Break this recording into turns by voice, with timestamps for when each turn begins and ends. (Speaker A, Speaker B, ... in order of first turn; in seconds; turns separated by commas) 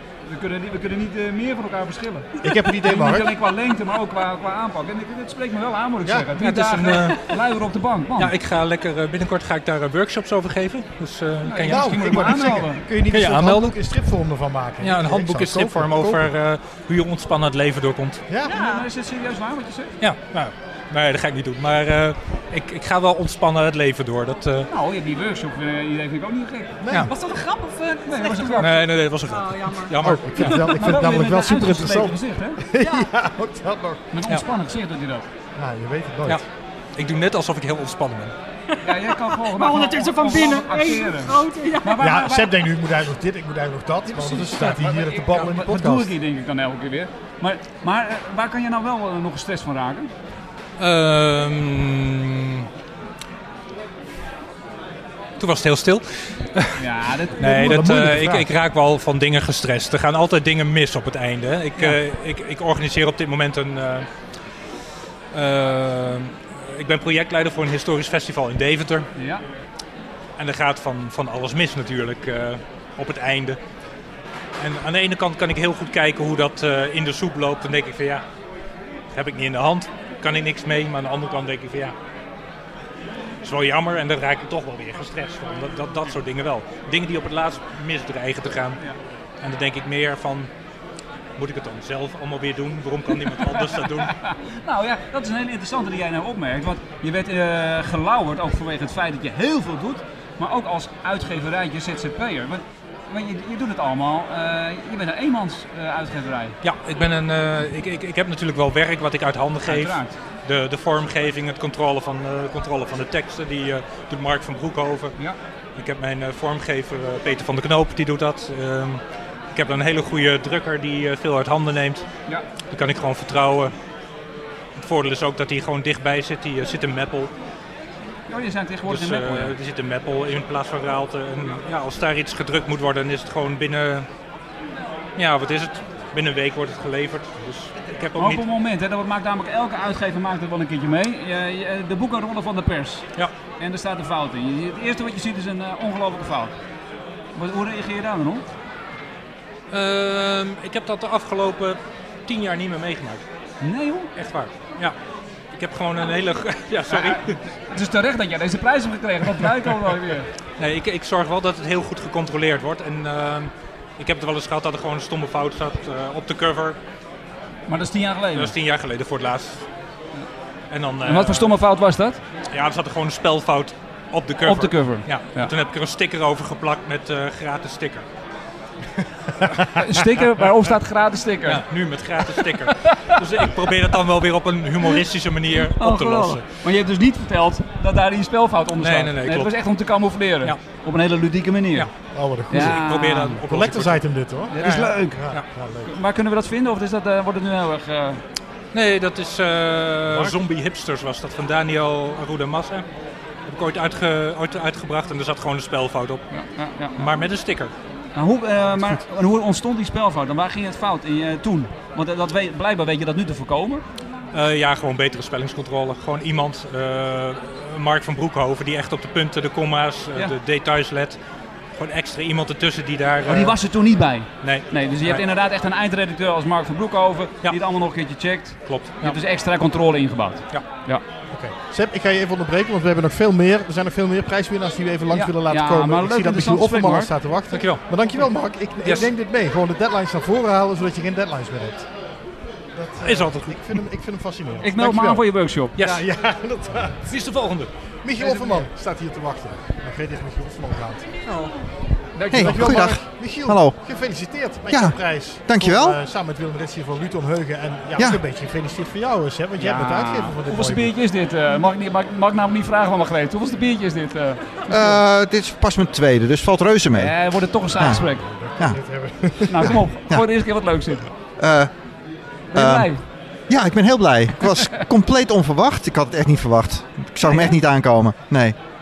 Speaker A: 0.3-8.3, Speaker B: 2.4-3.3, Speaker C: 6.4-7.2, Speaker C: 8.2-13.8, Speaker A: 11.4-12.8, Speaker B: 11.7-16.2, Speaker C: 14.8-18.2, Speaker D: 18.5-18.9, Speaker A: 18.5-19.9, Speaker C: 20.0-24.7, Speaker A: 24.7-26.8, Speaker B: 26.8-27.1, Speaker D: 26.9-28.7, Speaker A: 28.1-28.8, Speaker C: 28.6-30.8, Speaker D: 29.3-30.6, Speaker B: 30.0-34.0, Speaker A: 30.7-32.6, Speaker D: 32.8-33.1, Speaker A: 34.1-35.2, Speaker B: 35.6-36.4, Speaker C: 37.0-38.3, Speaker D: 38.7-42.0, Speaker A: 38.8-42.5, Speaker B: 42.0-46.1, Speaker A: 44.1-50.1, Speaker C: 50.8-52.7, Speaker C: 55.4-56.8, Speaker A: 56.8-57.9, Speaker C: 57.4-64.1, Speaker B: 57.5-58.5, Speaker C: 65.3-69.1, Speaker A: 69.2-69.4, Speaker C: 70.4-73.6, Speaker C: 74.6-78.2, Speaker C: 79.1-81.9, Speaker C: 83.4-88.8, Speaker C: 89.4-90.5, Speaker C: 91.4-94.2, Speaker A: 93.4-106.5, Speaker C: 106.6-115.2, Speaker A: 109.7-110.1, Speaker C: 115.8-119.0, Speaker C: 119.5-122.1, Speaker C: 122.7-123.7, Speaker C: 124.8-127.3, Speaker A: 128.3-129.6, Speaker C: 128.9-134.1, Speaker C: 135.2-138.4, Speaker A: 138.2-143.1, Speaker A: 143.6-146.5, Speaker A: 147.3-148.4, Speaker C: 149.7-153.2, Speaker A: 153.6-154.1, Speaker C: 154.2-154.9, Speaker C: 155.5-157.3, Speaker A: 156.9-160.3, Speaker C: 160.6-166.8, Speaker A: 167.7-168.5, Speaker C: 168.3-169.7, Speaker C: 170.7-171.5, Speaker A: 171.0-172.2, Speaker C: 172.5-178.1, Speaker A: 174.4-175.5, Speaker A: 179.8-181.6, Speaker C: 181.5-186.5, Speaker A: 182.6-183.2, Speaker A: 185.7-191.9, Speaker C: 188.8-189.5, Speaker B: 192.1-192.8, Speaker A: 192.5-193.4, Speaker C: 192.5-194.0, Speaker B: 193.4-195.9, Speaker A: 194.5-195.2, Speaker A: 195.8-198.2, Speaker C: 198.7-202.8, Speaker C: 203.5-206.3, Speaker A: 206.3-207.1, Speaker C: 207.0-207.7, Speaker A: 208.2-213.8, Speaker C: 214.3-221.2, Speaker C: 221.8-223.6, Speaker A: 223.2-231.0, Speaker C: 224.4-225.2, Speaker C: 228.7-229.2, Speaker B: 231.3-241.9, Speaker A: 235.1-237.1, Speaker C: 237.5-237.8, Speaker C: 238.8-239.1, Speaker B: 242.8-247.0, Speaker C: 243.0-243.8, Speaker A: 244.6-245.7, Speaker C: 245.8-246.0, Speaker C: 247.1-247.7, Speaker B: 248.0-251.1, Speaker A: 248.2-248.6, Speaker A: 252.2-252.8, Speaker E: 252.3-253.8, Speaker B: 252.3-260.9, Speaker E: 254.7-256.0, Speaker A: 259.6-265.0, Speaker E: 264.7-267.1, Speaker A: 266.9-268.2, Speaker B: 268.1-269.7, Speaker A: 269.5-271.1, Speaker E: 271.4-271.7, Speaker A: 272.5-273.0, Speaker E: 272.6-272.9, Speaker E: 273.5-278.6, Speaker A: 277.2-277.6